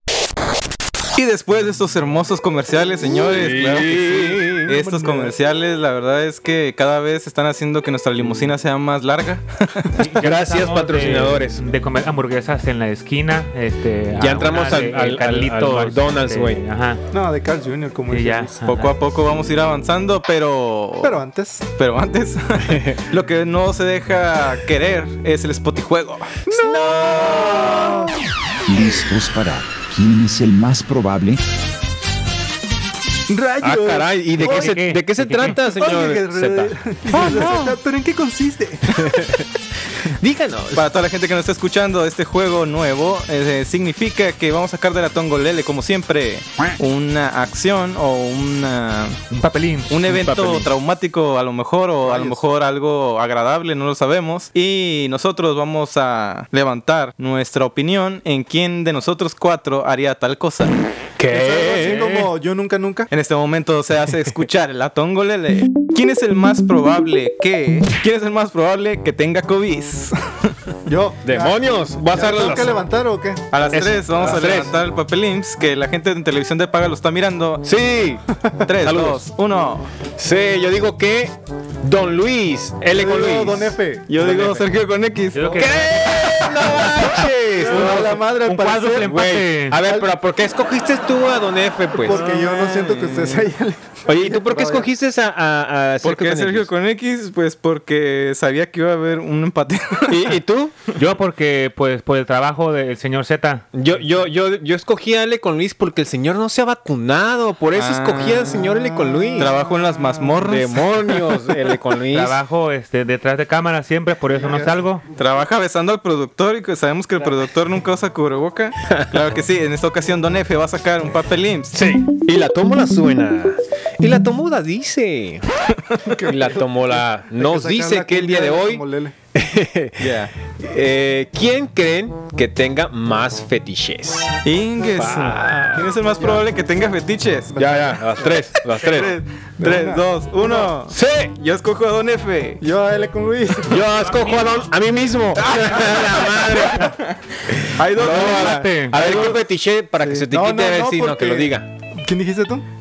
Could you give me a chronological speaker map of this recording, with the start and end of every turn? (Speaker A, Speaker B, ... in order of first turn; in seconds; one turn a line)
Speaker A: 1.1-9.9
Speaker B: 3.0-4.7
Speaker C: 4.7-5.3
Speaker D: 9.9-17.0
Speaker B: 10.0-11.6
Speaker B: 14.2-16.6
Speaker C: 17.1-18.6
Speaker D: 18.1-18.9
Speaker A: 18.6-21.2
Speaker C: 21.0-21.6
Speaker A: 21.8-26.4
Speaker B: 22.6-23.0
Speaker C: 26.5-28.1
Speaker B: 26.5-28.1
Speaker E: 28.7-31.4
Speaker C: 33.3-34.8
Speaker B: 33.6-37.8
Speaker D: 34.4-35.6
Speaker C: 35.8-39.0
Speaker B: 38.9-39.5
Speaker B: 40.1-40.9
Speaker A: 40.7-49.2
Speaker D: 49.3-50.3
Speaker A: 49.9-60.8
Speaker B: 50.1-50.7
Speaker C: 52.0-52.4
Speaker B: 61.2-62.3
Speaker C: 61.3-63.1
Speaker A: 63.1-70.5
Speaker C: 70.8-73.5
Speaker B: 71.2-72.8
Speaker A: 73.5-77.7
Speaker B: 73.7-74.8
Speaker B: 77.6-78.2
Speaker A: 78.6-79.9
Speaker B: 78.8-79.2
Speaker B: 80.2-84.6
Speaker C: 82.9-84.1
Speaker A: 84.1-85.6
Speaker D: 85.3-87.2
Speaker C: 85.4-85.7
Speaker B: 85.5-88.2
Speaker C: 87.6-89.2
Speaker A: 87.7-88.0
Speaker D: 87.8-89.8
Speaker B: 89.0-92.2
Speaker C: 89.8-90.2
Speaker C: 91.9-94.9
Speaker A: 92.1-93.5
Speaker B: 94.0-96.7
Speaker A: 96.0-100.3
Speaker B: 100.1-100.8
Speaker D: 100.9-103.6
Speaker B: 103.7-109.6
Speaker A: 107.7-108.6
Speaker A: 109.4-110.9
Speaker B: 110.4-112.4
Speaker D: 112.1-115.0
Speaker C: 114.3-114.8
Speaker A: 115.2-121.8
Speaker B: 118.9-119.3
Speaker B: 121.7-125.5
Speaker C: 126.1-129.1
Speaker B: 126.2-134.3
Speaker A: 130.0-130.3
Speaker A: 134.4-137.5
Speaker B: 134.9-135.9
Speaker C: 137.5-138.3
Speaker B: 137.6-139.2
Speaker A: 138.7-142.6
Speaker C: 139.6-140.7
Speaker B: 140.9-141.3
Speaker C: 142.6-143.8
Speaker B: 143.7-146.9
Speaker D: 144.0-144.5
Speaker A: 145.4-146.9
Speaker B: 147.7-151.7
Speaker A: 147.7-149.4
Speaker D: 148.2-149.0
Speaker C: 149.9-152.7